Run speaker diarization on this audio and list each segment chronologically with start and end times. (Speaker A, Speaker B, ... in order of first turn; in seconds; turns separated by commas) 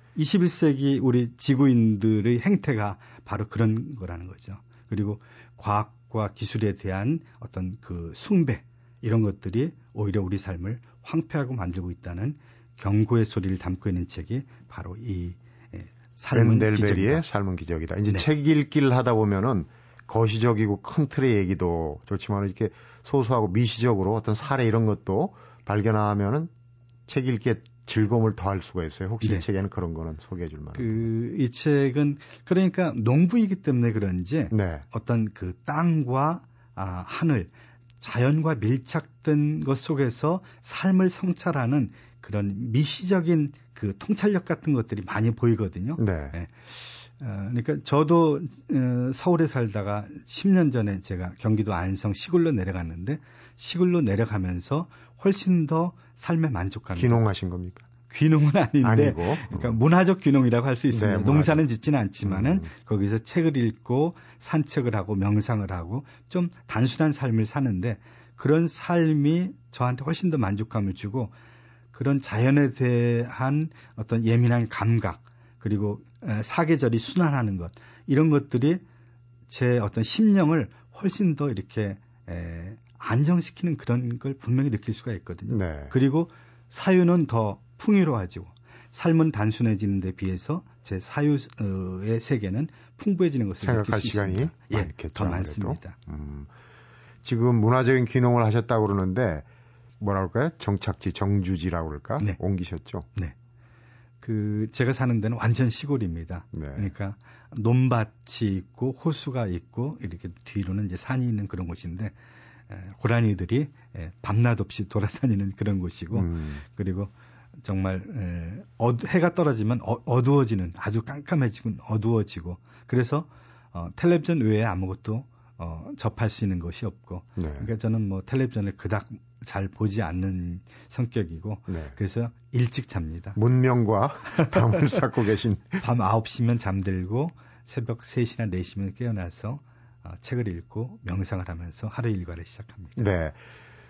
Speaker A: 0.2-17.2, Speaker B: 16.3-26.5, Speaker B: 27.1-31.1, Speaker A: 30.8-57.2, Speaker B: 34.5-34.9, Speaker B: 46.0-46.3, Speaker B: 57.0-57.9, Speaker A: 58.1-71.3, Speaker B: 58.8-59.8, Speaker B: 60.9-61.6, Speaker B: 62.2-62.7, Speaker A: 71.9-78.8, Speaker A: 79.5-96.0, Speaker B: 85.5-85.9, Speaker B: 93.6-96.5, Speaker B: 97.2-99.5, Speaker B: 100.0-103.1, Speaker A: 104.2-112.2, Speaker B: 106.5-106.9, Speaker A: 112.7-117.1, Speaker B: 116.1-116.6, Speaker A: 117.6-133.4, Speaker B: 127.4-127.7, Speaker B: 131.7-131.9, Speaker B: 133.4-135.8, Speaker A: 135.8-143.0, Speaker B: 143.0-143.4